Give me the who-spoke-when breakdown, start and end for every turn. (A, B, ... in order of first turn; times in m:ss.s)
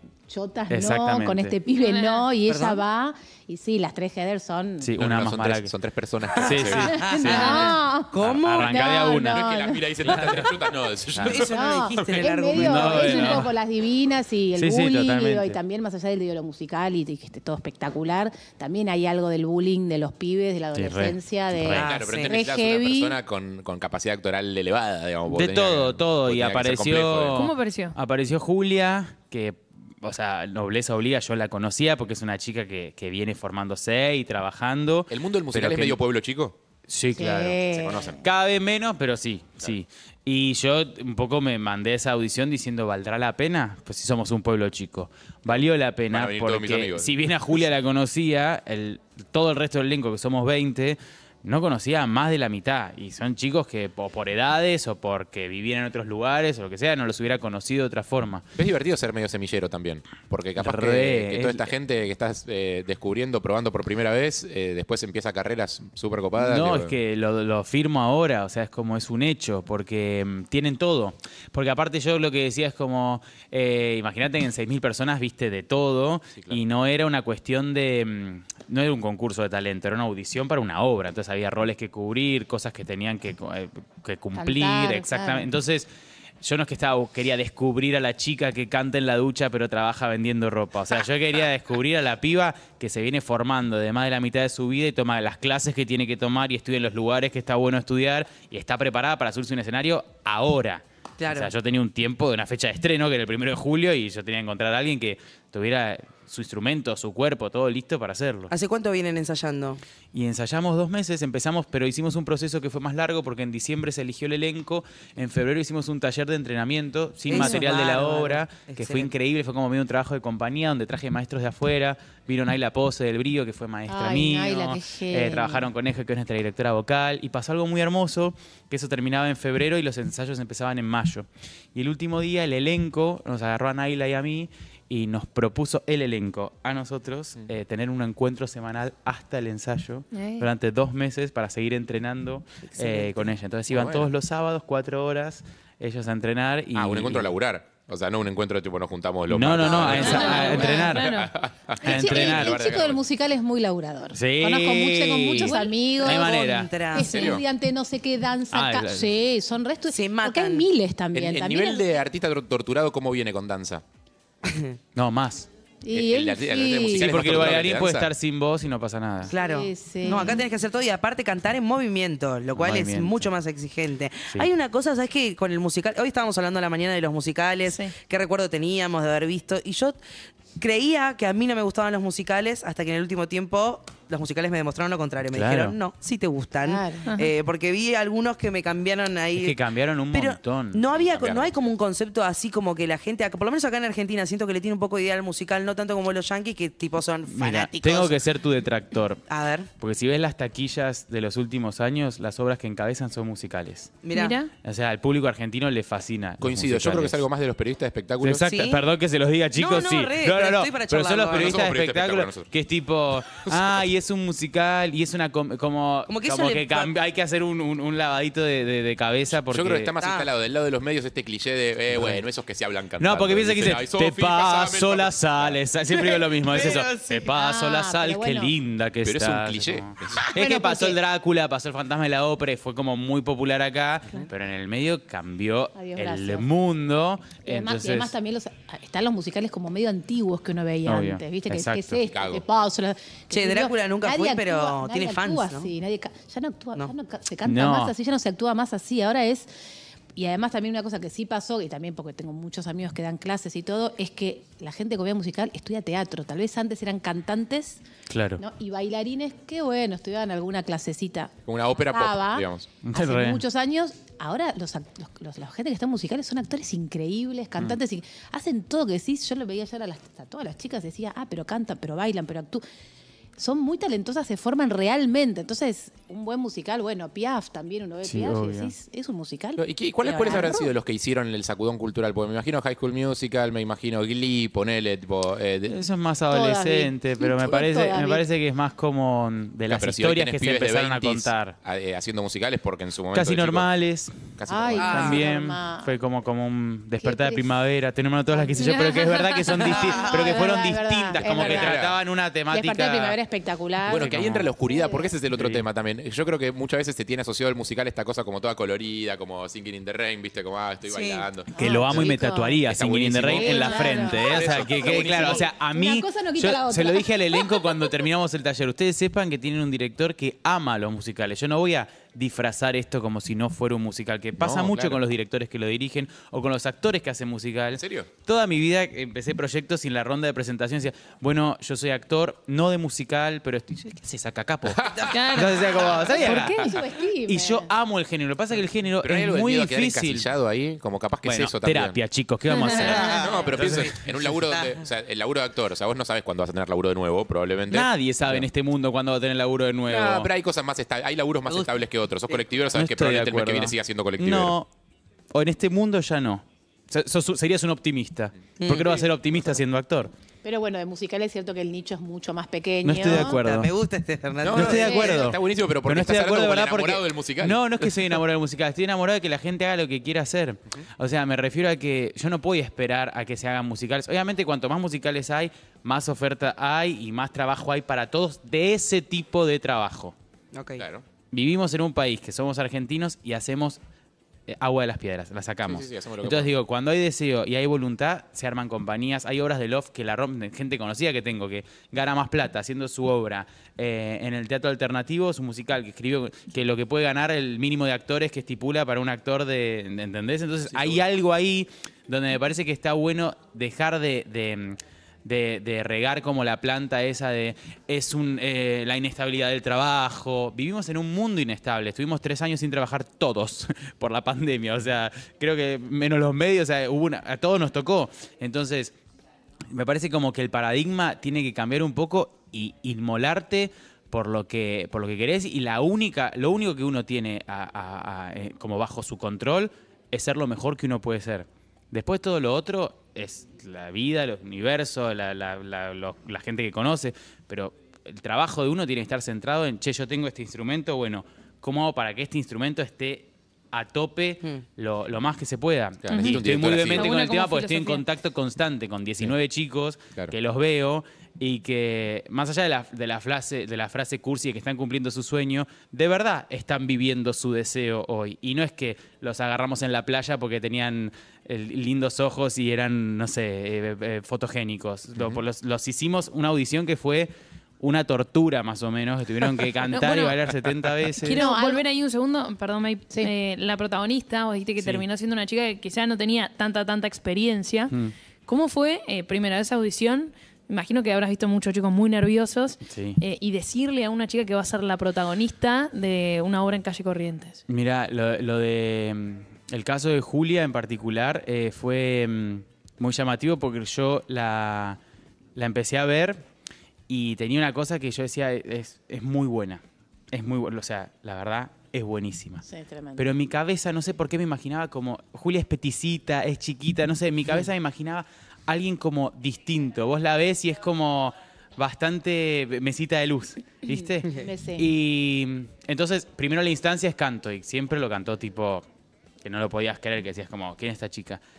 0:00.3-0:05.0 A
0:00.7-0:01.6 B
0:01.8-0:02.3 C
0:02.5-0:02.8 D
0:04.8-0:05.7 B
0:05.0-0:07.0 E
0:06.4-0:08.9 D
0:06.4-0:09.4 B
0:06.9-0:09.8 A
0:07.3-0:07.7 C
0:09.2-0:11.8 E
0:10.0-0:10.5 B
0:11.1-0:11.4 B
0:11.3-0:13.5 D
0:11.4-0:23.2 A
0:12.5-0:13.5 B
0:14.6-0:15.6 B
0:20.7-0:21.9 B
0:21.6-0:27.4 E
0:21.7-0:22.4 D
0:25.3-0:36.0 B
0:27.3-0:28.0 C
0:35.1-0:36.6 E
0:36.9-0:37.6 B
0:37.2-0:38.2 A
0:37.7-0:38.2 E
0:38.2-0:58.4 B
0:45.5-0:47.2 E
0:58.6-1:07.0 E
1:00.6-1:01.7 B
1:06.4-1:25.9 B
1:16.4-1:16.6 E
1:24.4-1:25.5 A
1:26.4-1:48.5 B
1:41.2-1:41.5 D
1:48.5-1:49.8 D
1:50.1-2:27.3 B
1:57.3-1:59.1 D
2:03.9-2:05.7 A
2:20.1-2:20.5 C
2:22.7-2:23.3 D
2:23.7-2:24.1 E
2:26.7-2:33.0 E
2:29.3-2:31.1 B
2:29.9-2:31.3 C
2:30.1-2:31.1 A
2:30.2-2:30.6 D
2:31.8-2:41.9 A
2:31.8-2:32.7 B
2:34.1-2:36.7 B
2:35.6-2:37.4 D
2:37.0-2:37.4 E
2:38.5-2:39.1 B
2:39.9-2:40.7 D
2:41.1-2:43.8 E
2:44.4-2:44.8 D
2:45.0-2:45.5 B
2:45.8-2:47.2 A
2:45.9-2:48.1 E
2:46.9-2:49.3 B
2:49.3-3:00.0 D
2:49.3-2:50.4 A
2:50.0-2:50.4 C
2:52.5-2:53.3 B
2:57.7-2:57.9 C
3:00.6-3:09.6 D
3:05.3-3:05.8 B
3:06.6-3:07.1 A
3:07.1-3:07.3 C
3:09.4-3:11.0 B
3:10.1-3:18.2 D
3:11.0-3:11.6 E
3:17.3-3:19.2 B
3:19.3-3:19.7 D
3:19.8-3:23.9 B
3:24.0-3:24.4 D
3:24.1-3:24.5 C
3:24.6-3:27.3 B
3:26.4-3:28.4 E
3:28.2-3:39.9 B
3:28.4-3:28.8 D
3:29.6-3:31.6 D
3:31.3-3:32.5 E
3:33.3-3:33.9 E
3:36.1-3:36.9 D
3:39.4-3:45.6 E
3:40.0-3:40.3 D
3:41.9-3:42.2 B
3:43.0-3:58.2 B
3:45.9-3:47.2 D
3:47.2-3:48.5 A
3:49.0-3:50.2 E
3:50.3-3:51.0 A
3:55.8-3:56.5 A
3:57.4-4:09.5 A
4:00.8-4:02.0 B
4:02.1-4:02.4 E
4:03.3-4:05.7 D
4:07.4-4:07.9 B
4:10.2-4:17.8 A
4:18.1-4:18.4 B
4:18.4-4:32.6 A
4:21.5-4:22.7 E
4:22.8-4:23.4 B
4:33.4-4:40.7 A
4:38.0-4:38.7 B
4:39.6-4:45.8 E
4:45.7-4:51.6 B
4:46.3-4:48.2 A
4:49.7-4:53.7 E
4:53.1-4:54.2 B
4:54.4-4:55.2 E
4:54.5-4:56.0 A
4:54.7-4:55.2 D
4:54.9-5:03.2 B
4:57.0-4:57.6 A
4:58.3-5:01.9 A
4:58.7-4:59.5 C
4:59.7-5:00.4 D
5:01.1-5:02.0 E
5:02.5-5:05.1 A
5:03.8-5:12.1 E
5:04.0-5:04.5 B
5:05.3-5:05.6 B
5:10.9-5:11.3 D
5:11.5-5:12.6 A
5:11.6-5:40.3 B
5:12.6-5:15.5 E
5:13.3-5:17.9 A
5:24.4-5:25.0 E
5:27.8-5:28.1 E
5:34.7-5:35.1 E
5:35.0-5:35.9 C
5:35.9-5:37.7 A
5:39.0-5:42.0 E
5:41.2-5:43.9 B
5:42.5-5:43.2 C
5:42.8-5:44.8 D
5:42.9-5:48.5 E
5:43.1-5:43.5 A
5:47.7-5:50.3 B
5:49.9-5:54.6 E
5:51.5-5:51.8 D
5:52.7-5:54.7 B
5:55.3-6:00.1 B
5:58.6-5:59.0 D
6:00.4-6:03.4 A
6:02.8-6:03.7 B
6:03.0-6:05.1 D
6:04.4-6:07.9 E
6:04.5-6:20.2 B
6:04.7-6:05.2 A
6:20.5-6:20.8 D
6:20.8-6:21.0 E
6:21.3-6:23.8 B
6:24.5-6:59.0 B
6:25.7-6:26.5 E
6:40.7-6:41.0 E
6:59.7-7:51.4 B
7:26.0-7:27.1 E
7:26.1-7:28.1 C
7:45.2-7:45.4 E
7:49.9-7:50.4 C
7:51.2-7:57.9 C
7:51.3-7:51.8 A
7:54.8-7:55.0 B
7:58.5-8:07.6 C
8:02.9-8:03.2 B
8:07.7-8:15.0 B
8:15.6-8:16.4 B
8:17.1-8:22.6 B
8:22.6-8:23.3 A
8:23.2-8:38.9 B
8:33.9-8:34.9 A
8:39.4-8:41.4 B